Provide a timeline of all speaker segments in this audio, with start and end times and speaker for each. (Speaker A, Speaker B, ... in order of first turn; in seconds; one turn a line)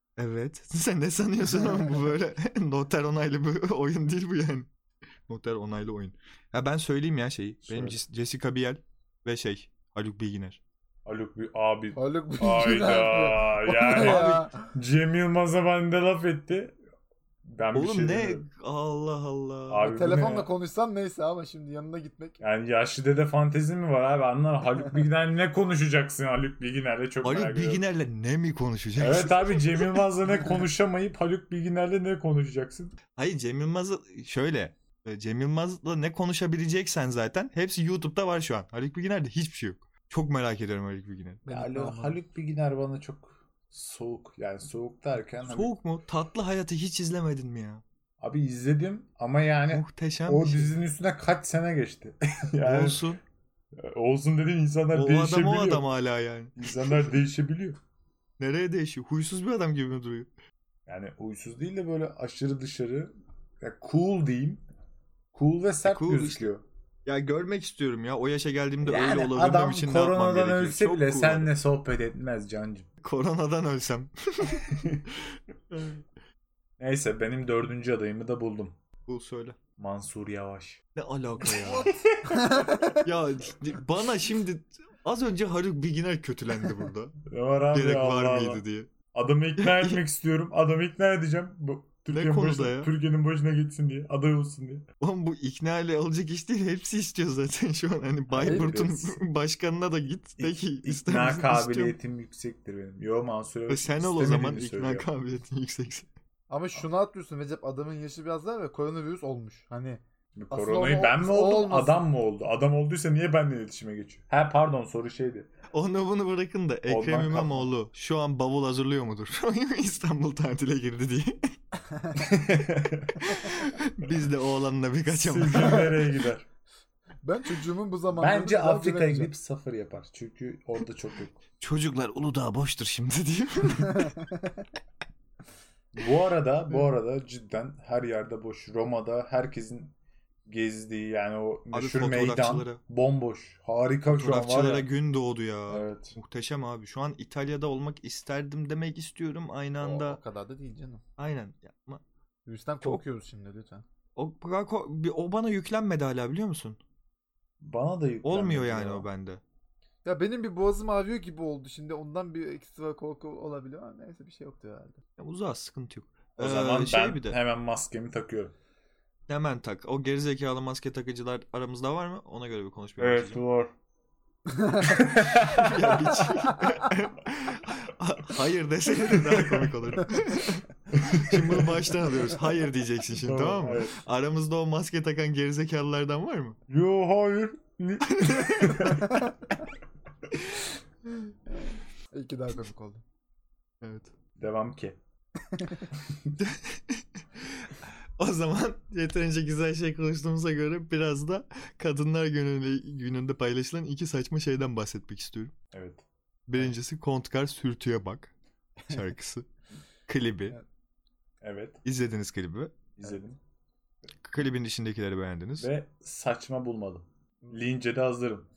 Speaker A: 0.2-4.7
Speaker A: 5.3-10.6
Speaker B: 7.7-8.0
Speaker B: 11.1-16.8
Speaker C: 11.9-14.7
Speaker A: 13.9-14.4
Speaker B: 17.4-18.4
Speaker A: 17.7-19.9
Speaker B: 19.7-20.5
Speaker C: 19.9-22.4
Speaker B: 22.4-27.8
Speaker A: 27.2-30.0
Speaker B: 29.0-33.0
Speaker A: 33.1-41.5
Speaker C: 41.5-42.2
Speaker B: 41.5-45.7
Speaker A: 45.4-47.8
Speaker B: 48.2-53.0
Speaker A: 49.7-50.7
Speaker A: 52.6-53.2
Speaker B: 53.8-55.8
Speaker A: 54.9-57.1
Speaker B: 56.6-57.8
Speaker A: 58.4-60.3
Speaker B: 60.9-64.6
Speaker B: 65.3-66.6
Speaker A: 65.8-66.5
Speaker A: 67.1-71.5
Speaker B: 68.8-72.9
Speaker A: 73.0-76.1
Speaker B: 74.6-75.0
Speaker B: 76.8-78.8
Speaker A: 79.1-79.6
Speaker B: 79.8-80.8
Speaker A: 81.0-81.9
Speaker B: 81.5-82.5
Speaker C: 82.3-83.0
Speaker A: 82.9-87.2
Speaker B: 87.3-88.6
Speaker A: 87.7-88.9
Speaker B: 89.1-94.9
Speaker A: 89.6-90.0
Speaker A: 92.1-92.9
Speaker A: 95.0-102.0
Speaker B: 98.3-99.2
Speaker C: 98.4-98.8
Speaker B: 100.4-105.1
Speaker A: 103.7-106.1
Speaker C: 106.5-112.0
Speaker B: 110.3-115.5
Speaker A: 115.7-121.5
Speaker B: 116.9-117.7
Speaker B: 122.2-123.2
Speaker A: 123.2-126.0
Speaker B: 125.1-126.5
Speaker C: 127.2-129.3
Speaker B: 128.2-131.4
Speaker A: 131.6-134.1
Speaker C: 134.0-134.6
Speaker B: 135.9-139.9
Speaker B: 140.5-144.9
Speaker A: 141.7-142.8
Speaker A: 144.1-150.2
Speaker B: 145.7-146.2
Speaker C: 149.8-151.0
Speaker A: 151.2-152.0
Speaker C: 152.5-153.8
Speaker A: 154.2-156.8
Speaker B: 157.6-159.1
Speaker A: 158.2-159.4
Speaker C: 160.1-165.0
Speaker A: 165.2-167.4
Speaker B: 166.4-168.5
Speaker A: 169.3-173.4
Speaker B: 173.0-173.7
Speaker C: 174.5-175.1
Speaker B: 174.9-176.0
Speaker A: 175.3-186.6
Speaker B: 179.2-179.7
Speaker B: 180.9-181.8
Speaker B: 183.2-184.0
Speaker B: 186.7-189.2
Speaker A: 188.1-189.0
Speaker C: 188.9-189.3
Speaker A: 191.1-191.3
Speaker C: 191.5-193.0
Speaker A: 193.8-194.1
Speaker B: 194.4-195.0
Speaker C: 195.6-195.9
Speaker B: 196.1-196.3
Speaker A: 196.4-205.5
Speaker B: 205.7-206.0
Speaker A: 206.5-208.3
Speaker A: 208.9-209.5
Speaker A: 210.1-210.6
Speaker B: 211.4-211.8
Speaker A: 211.8-212.8
Speaker B: 213.0-213.4
Speaker A: 214.2-215.7
Speaker B: 215.6-218.5